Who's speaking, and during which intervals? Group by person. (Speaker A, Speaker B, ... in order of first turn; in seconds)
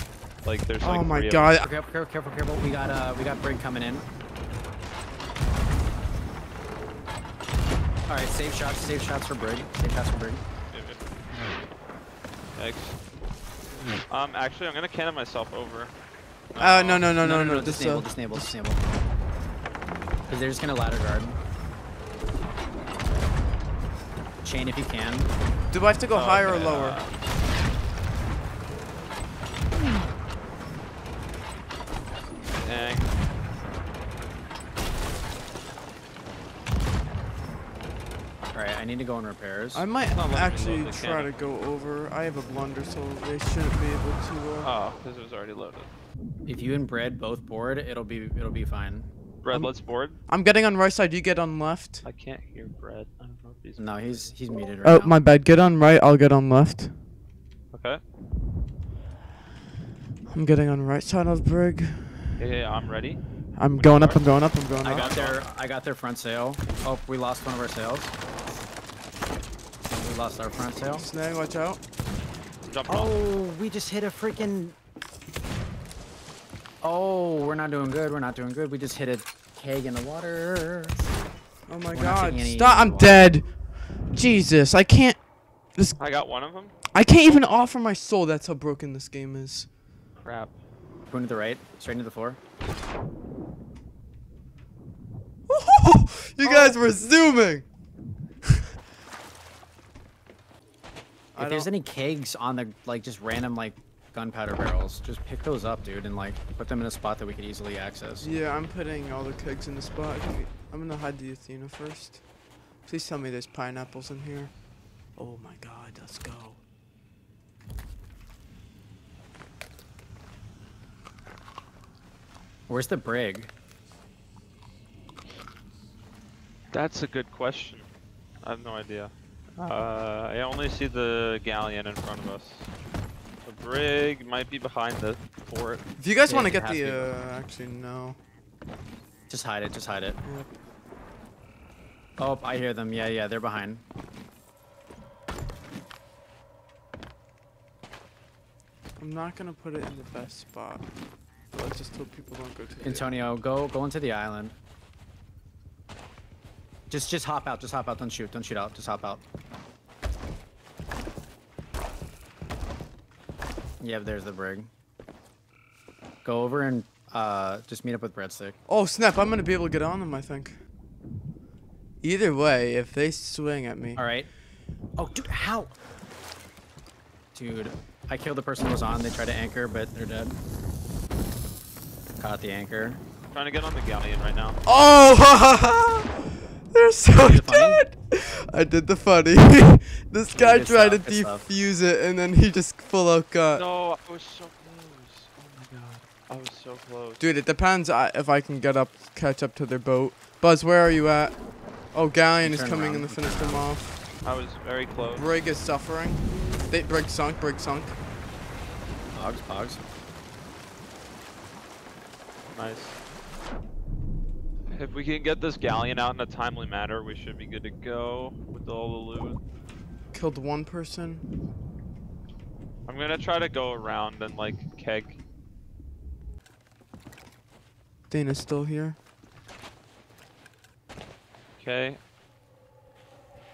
Speaker A: 0.4-1.5, 10.7-11.0, 12.5-12.9, 14.1-15.9, 16.5-17.1, 26.1-27.1, 32.6-33.1, 40.1-41.3, 44.6-45.9, 49.4-50.2, 52.0-54.3, 57.7-58.0, 62.4-64.2, 64.9-65.4, 72.7-73.1, 86.0-86.7, 90.2-90.5, 126.7-127.9, 128.4-132.7, 133.4-135.8, 183.3-184.6, 193.5-197.2, 204.2-205.3, 212.5-213.0, 214.7-219.4, 222.8-225.2, 231.6-232.0
Speaker B: 0.8-1.7, 16.6-18.5, 25.7-27.0, 39.7-44.7, 49.5-52.0, 54.8-56.9, 60.3-62.3, 63.5-65.1, 70.9-71.8, 81.7-86.0, 86.9-89.7, 95.5-97.7, 101.3-101.7, 108.2-112.2, 112.8-114.5, 115.2-116.6, 136.0-138.2, 140.2-140.5, 149.0-150.9, 151.5-153.2, 168.7-170.6, 172.0-174.0, 184.7-193.6, 197.2-204.0, 205.1-208.0, 220.1-221.2, 228.1-229.0
Speaker C: 1.6-4.1, 8.1-10.4, 17.2-18.8, 20.3-21.4, 24.4-25.3, 38.5-39.9, 46.5-49.1, 53.8-55.2, 64.8-68.1, 70.0-71.1, 72.9-74.8, 76.8-81.0, 81.9-83.3, 91.1-92.4, 101.4-108.3, 122.7-123.5, 136.3-137.1, 139.3-140.2, 142.2-143.8, 152.8-154.6, 156.9-159.2, 163.8-164.7, 166.2-168.6, 173.9-174.3, 174.9-175.8, 177.3-180.4, 182.2-183.0, 187.2-187.8, 190.3-191.5, 202.4-203.7, 209.1-209.8